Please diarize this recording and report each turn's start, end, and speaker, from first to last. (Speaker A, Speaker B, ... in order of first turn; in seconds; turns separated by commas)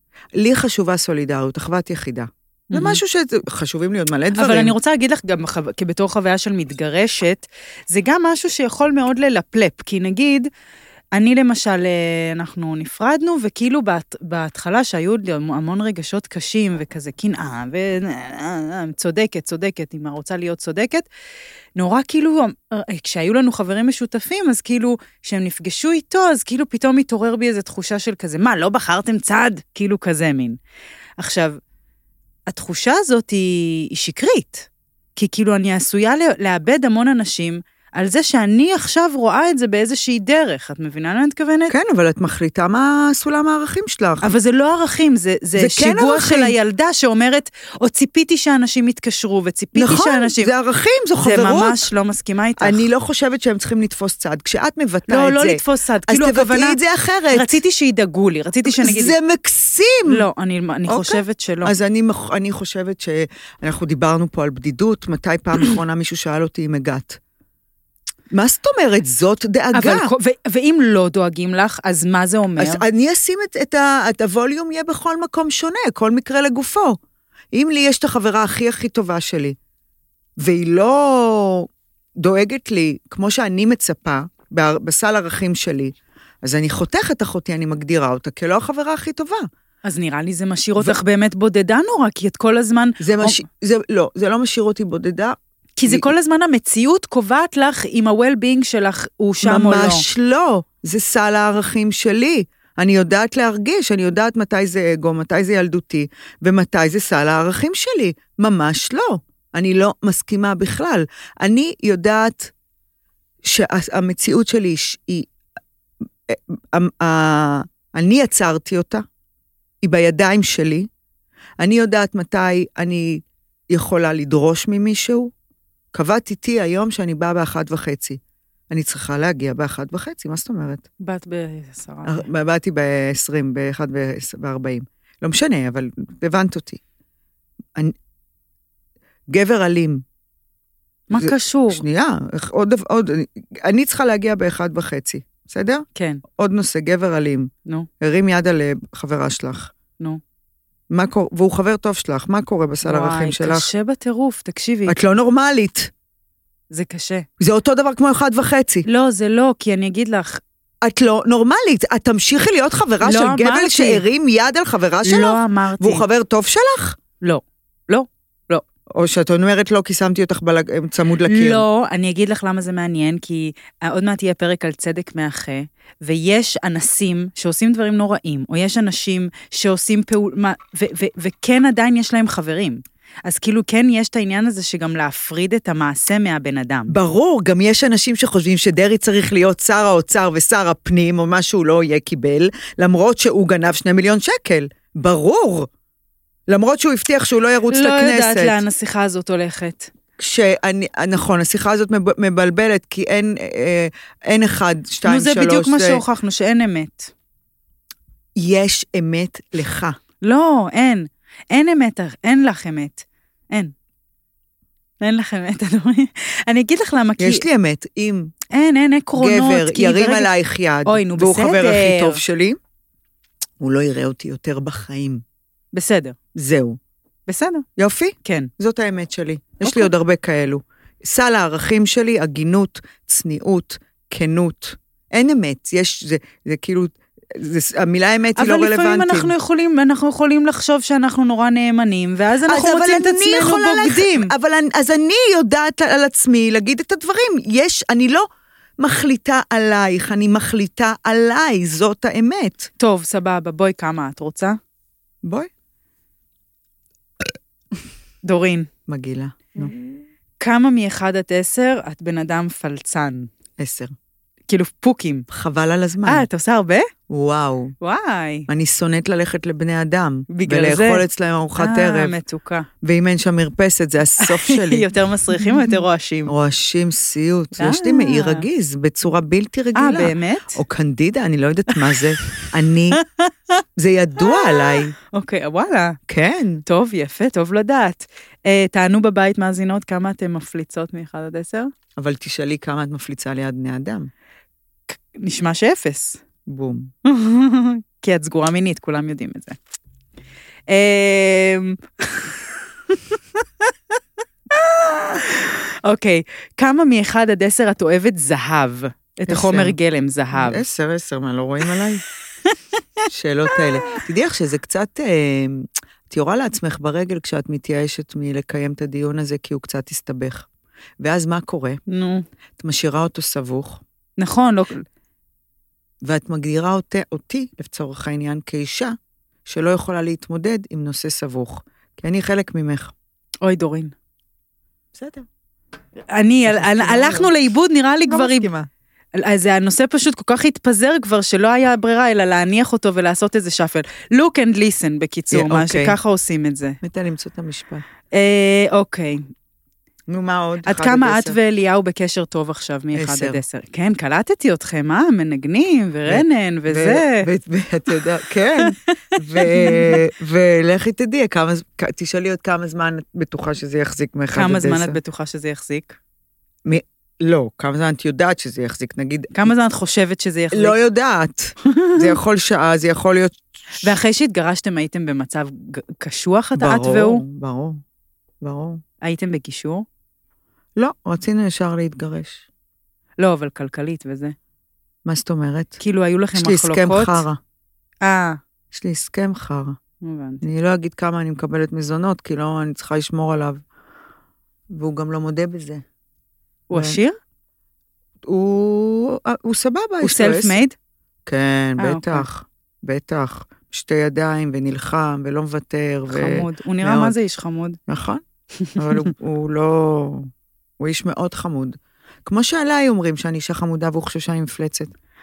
Speaker A: 0.4-4.7, Speaker B: 2.7-3.0, Speaker B: 4.3-10.5, Speaker B: 11.1-21.1, Speaker B: 21.8-30.6, Speaker B: 31.2-31.6, Speaker B: 32.5-41.7, Speaker A: 41.7-44.3, Speaker B: 44.2-50.5, Speaker A: 45.6-46.6, Speaker A: 49.7-51.8, Speaker B: 51.2-52.9, Speaker A: 52.6-57.6, Speaker B: 55.1-56.8, Speaker B: 57.3-59.1, Speaker A: 58.6-60.2, Speaker B: 60.1-61.7, Speaker A: 60.9-67.2, Speaker A: 68.3-70.1, Speaker B: 69.7-72.8, Speaker A: 72.6-77.0, Speaker A: 77.5-79.6, Speaker A: 80.4-89.5, Speaker B: 89.8-93.4, Speaker A: 93.0-95.4, Speaker B: 95.8-100.1, Speaker A: 99.4-112.5, Speaker A: 113.4-115.3, Speaker A: 116.3-119.0, Speaker A: 119.8-120.9, Speaker A: 121.6-125.3, Speaker A: 125.9-130.8, Speaker B: 131.0-132.3, Speaker A: 132.1-136.8, Speaker A: 139.3-140.0, Speaker B: 141.1-141.8, Speaker A: 141.2-149.7, Speaker B: 145.9-146.2, Speaker A: 150.9-153.7, Speaker B: 152.8-155.0, Speaker A: 154.9-155.9, Speaker B: 156.7-157.2, Speaker A: 157.4-158.9, Speaker B: 158.9-160.4, Speaker A: 160.8-167.0, Speaker B: 163.0-164.0, Speaker B: 165.0-166.0, Speaker B: 167.2-168.6, Speaker A: 168.9-171.6, Speaker B: 171.2-186.9, Speaker A: 186.9-195.7, Speaker A: 196.5-198.6, Speaker B: 197.7-199.9, Speaker A: 200.2-206.0, Speaker B: 205.0-207.1, Speaker A: 208.4-210.0, Speaker B: 210.2-213.7, Speaker B: 215.0-217.4, Speaker A: 217.2-218.3, Speaker B: 218.5-220.3, Speaker A: 219.2-222.6, Speaker B: 220.9-222.2, Speaker A: 223.6-225.2, Speaker B: 225.7-226.2, Speaker A: 226.3-226.8, Speaker B: 227.3-227.6, Speaker A: 227.8-239.3, Speaker B: 228.2-228.5, Speaker B: 229.6-229.9, Speaker B: 238.4-244.3, Speaker A: 242.4-248.3, Speaker A: 248.8-252.7, Speaker B: 252.8-254.6, Speaker A: 255.2-255.5, Speaker B: 258.2-258.7, Speaker A: 258.9-259.7, Speaker B: 260.4-263.3, Speaker A: 263.6-263.9, Speaker B: 264.5-265.3, Speaker A: 265.3-266.3, Speaker B: 266.0-266.9, Speaker A: 267.1-267.7, Speaker B: 267.8-268.5, Speaker A: 268.5-272.1, Speaker B: 270.3-271.1, Speaker B: 271.6-272.7, Speaker A: 272.8-275.7, Speaker B: 274.2-276.3, Speaker A: 276.3-283.0, Speaker B: 277.6-278.4, Speaker B: 279.7-280.6, Speaker B: 283.0-283.5, Speaker A: 283.8-284.9, Speaker B: 284.2-286.0, Speaker A: 286.1-286.6, Speaker B: 286.6-291.7, Speaker A: 292.0-294.1, Speaker B: 294.9-296.2, Speaker A: 296.4-296.9, Speaker B: 297.0-299.6, Speaker B: 300.7-303.7, Speaker B: 304.5-310.6, Speaker A: 309.3-309.8, Speaker A: 310.3-312.0, Speaker A: 313.1-320.5, Speaker B: 313.5-314.0, Speaker A: 321.0-321.8, Speaker B: 321.9-322.2, Speaker A: 322.6-323.8, Speaker B: 324.2-324.9, Speaker A: 326.0-332.9, Speaker B: 333.4-333.9, Speaker A: 334.9-335.3, Speaker B: 336.1-338.5, Speaker A: 336.4-337.3, Speaker A: 338.1-338.6, Speaker B: 339.1-346.8, Speaker A: 345.3-346.0, Speaker A: 346.8-347.8, Speaker B: 348.1-349.3, Speaker A: 350.1-351.4, Speaker B: 350.6-357.3, Speaker A: 352.9-353.4, Speaker A: 356.1-365.0, Speaker B: 358.6-360.0, Speaker B: 364.3-366.0, Speaker A: 366.6-369.5, Speaker B: 369.3-370.8, Speaker A: 370.5-373.9, Speaker B: 371.7-372.1, Speaker B: 373.8-377.2, Speaker A: 376.6-377.8, Speaker A: 378.4-378.8, Speaker B: 379.0-379.9, Speaker A: 380.8-382.4, Speaker B: 383.2-384.4, Speaker A: 385.0-385.8, Speaker B: 385.8-387.2, Speaker A: 386.4-387.4, Speaker B: 388.0-388.4, Speaker A: 388.7-389.8, Speaker B: 390.0-390.4, Speaker A: 390.4-393.6, Speaker A: 394.7-395.8, Speaker B: 396.7-397.1, Speaker A: 396.7-397.0, Speaker A: 398.2-400.6, Speaker B: 400.0-400.7, Speaker A: 401.2-407.2, Speaker B: 401.8-402.3, Speaker B: 406.1-407.8, Speaker A: 407.9-408.2, Speaker B: 408.6-409.1, Speaker A: 408.8-414.9